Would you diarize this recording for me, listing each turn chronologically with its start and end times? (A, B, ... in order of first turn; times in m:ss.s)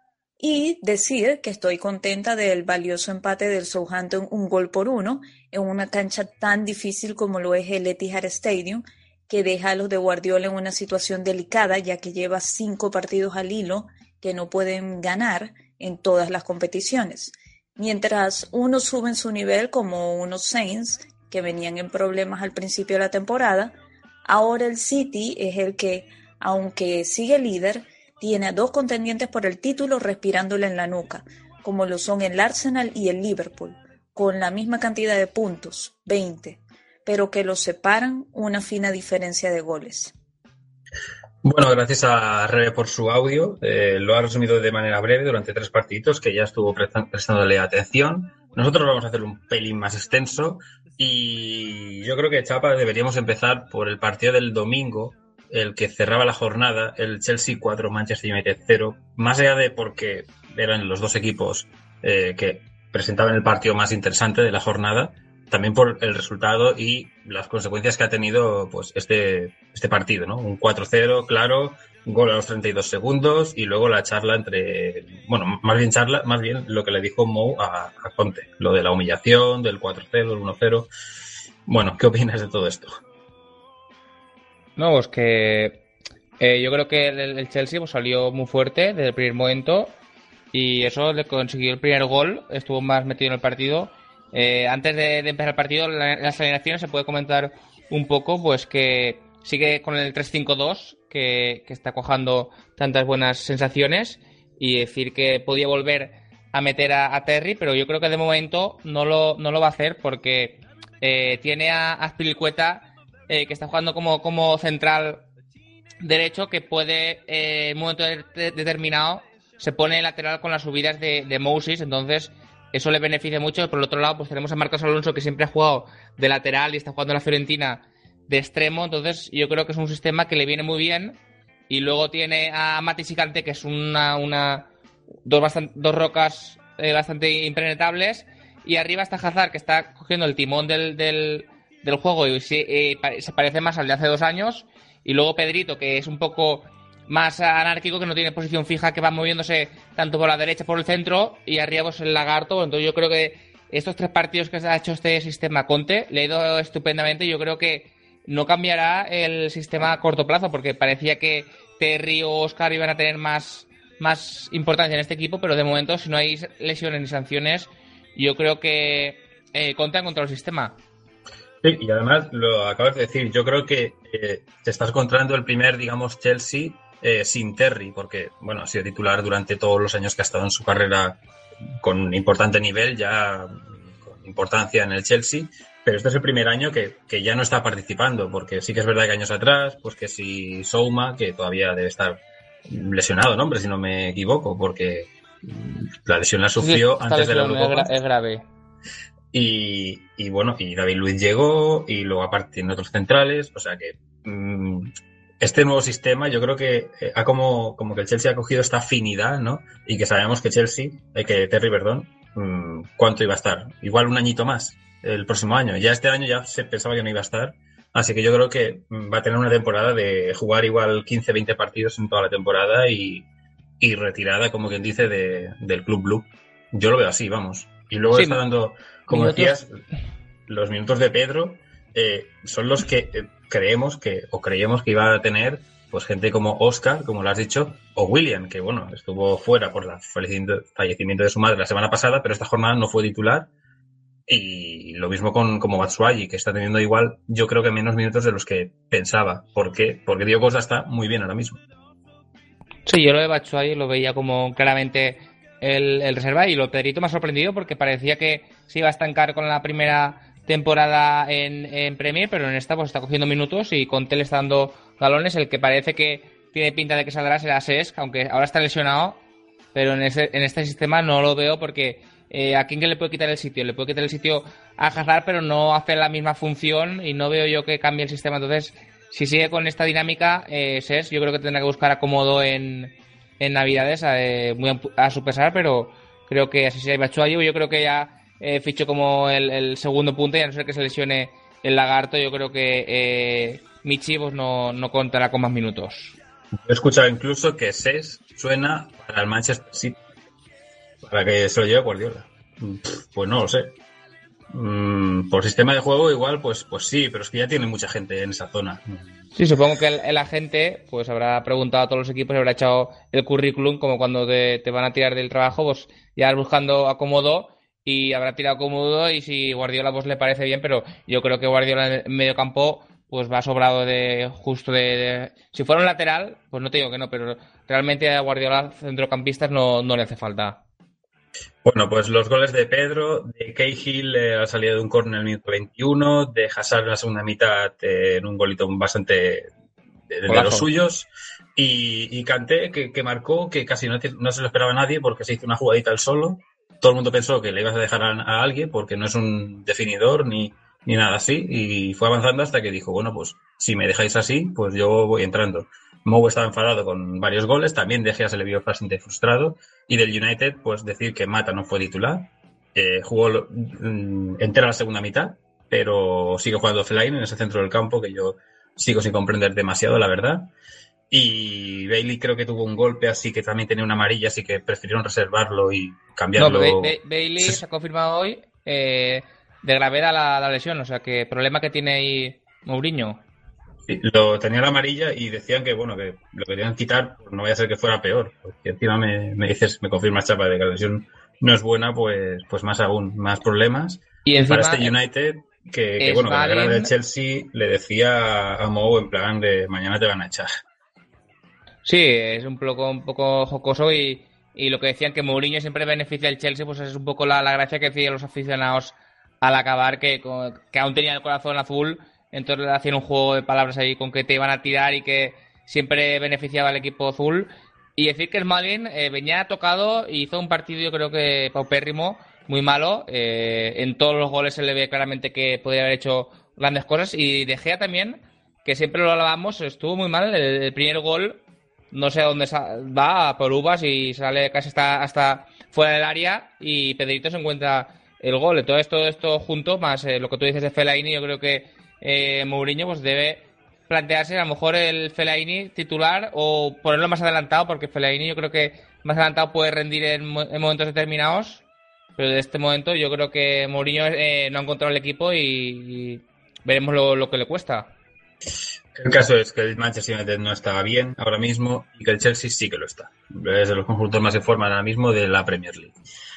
0:00.4-0:40.1 A
0:41.4-1:20.9 B
1:21.6-1:23.0 B
1:24.8-1:25.8 C
1:26.4-1:30.0 C
1:30.5-1:55.2 C
1:56.0-2:11.2 C
2:11.7-2:14.7 C
2:15.2-2:50.8 C
2:51.6-3:01.2 B
3:01.8-3:17.9 B
3:16.6-3:18.4 C
3:19.3-3:43.2 B
3:43.8-3:49.8 B
3:48.1-3:48.4 C
3:49.1-3:49.6 C
3:50.5-4:03.5 B
4:04.3-4:11.6 B
4:12.8-4:29.2 C
4:29.7-4:56.2 C
4:56.6-5:00.0 B
5:01.0-5:03.8 B
5:04.5-5:09.1 B
5:09.4-5:30.6 C
5:31.6-5:39.5 B
5:40.1-6:10.5 B
5:40.3-5:40.7 C
6:11.1-6:17.6 B
6:16.4-6:23.2 C
6:23.9-6:40.6 B
6:34.2-6:34.9 C
6:36.0-6:36.9 C
6:41.8-7:11.4 C
7:11.9-7:31.6 C
7:32.2-7:37.9 C
7:38.9-7:46.0 B